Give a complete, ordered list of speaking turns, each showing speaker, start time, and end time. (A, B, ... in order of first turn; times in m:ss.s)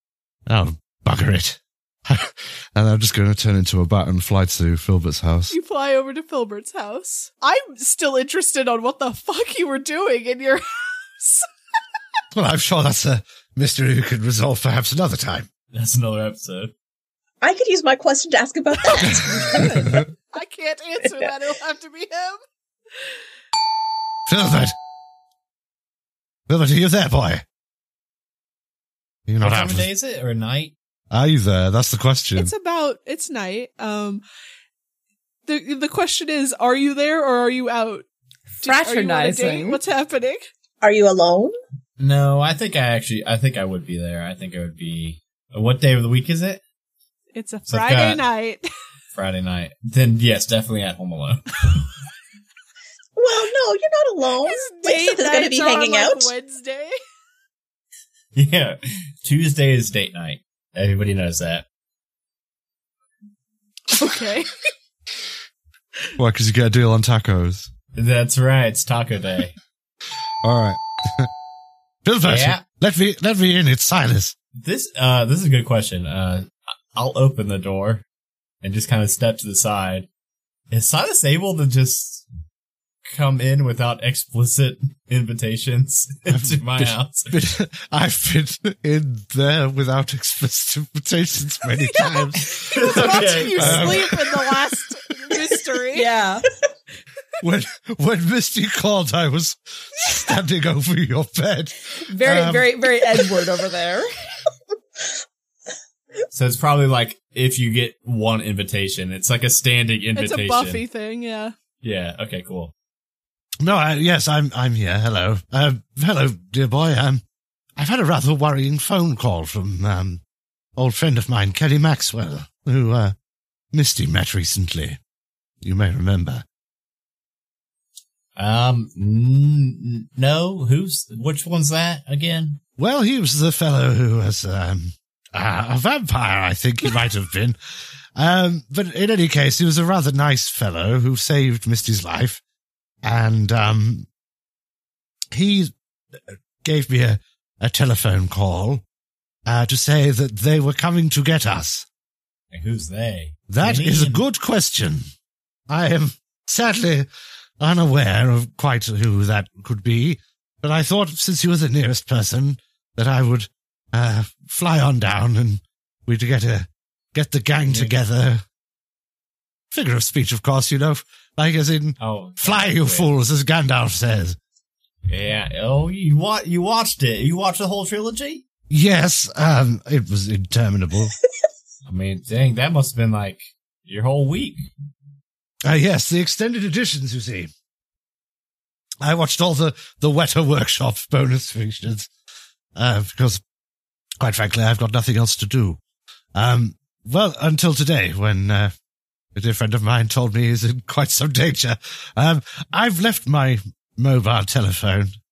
0:00.5-0:05.6 A
0:05.5-0:11.5 B
0:12.3-0:15.5 A
0:15.7-0:16.7 C
0:17.4-0:20.0 D
0:19.6-0:22.4 B
0:24.3-0:24.8 A
0:26.5-0:27.4 A
0:29.3-0:29.9 A
0:29.4-0:30.7 C
0:31.1-0:32.5 A
0:32.4-0:34.2 B
0:35.5-0:38.1 B
0:38.6-0:40.4 B
0:38.6-0:39.8 E
0:40.8-0:41.5 D
0:42.0-0:46.6 C
0:47.3-0:48.7 B
0:47.7-0:48.2 C
0:49.2-0:51.9 C
0:53.2-0:56.3 D
0:54.4-0:56.9 B
0:58.4-1:01.6 C
1:03.9-1:04.5 B
1:06.2-1:07.7 A
1:08.0-1:09.6 C
1:10.4-1:11.3 A
1:12.0-1:14.3 A
1:12.2-1:12.6 C
1:14.6-1:18.0 C
1:18.6-1:20.1 C
1:20.7-1:22.2 C
1:23.1-1:27.3 C
1:26.3-1:34.5 A
1:32.0-1:36.1 B
1:32.7-1:34.2 C
1:35.9-1:36.4 E
1:37.4-1:42.7 A
1:42.1-1:44.1 E
1:46.3-1:50.8 C
1:50.2-1:51.5 B
1:51.8-1:52.7 C
1:53.6-1:57.2 A
1:57.8-2:00.2 A
2:00.8-2:03.2 A
2:03.7-2:05.0 A
2:05.6-2:06.4 A
2:08.4-2:12.6 C
2:12.8-2:17.6 A
2:18.2-2:22.4 A
2:23.0-2:24.1 A
2:25.3-2:25.7 A
2:26.3-2:28.8 A
2:29.5-2:31.9 A
2:32.5-2:34.2 C
2:33.5-2:35.0 A
2:35.7-2:37.1 A
2:37.6-2:48.4 A
2:47.7-2:48.0 C
2:49.7-2:54.4 A
2:52.0-2:53.1 C
2:55.1-2:58.4 C
2:58.7-3:01.2 A
3:01.9-3:04.7 C
3:05.6-3:07.5 A
3:09.0-3:12.1 A
3:12.8-3:13.4 A
3:14.2-3:15.8 A
3:16.4-3:18.7 A
3:19.4-3:25.1 A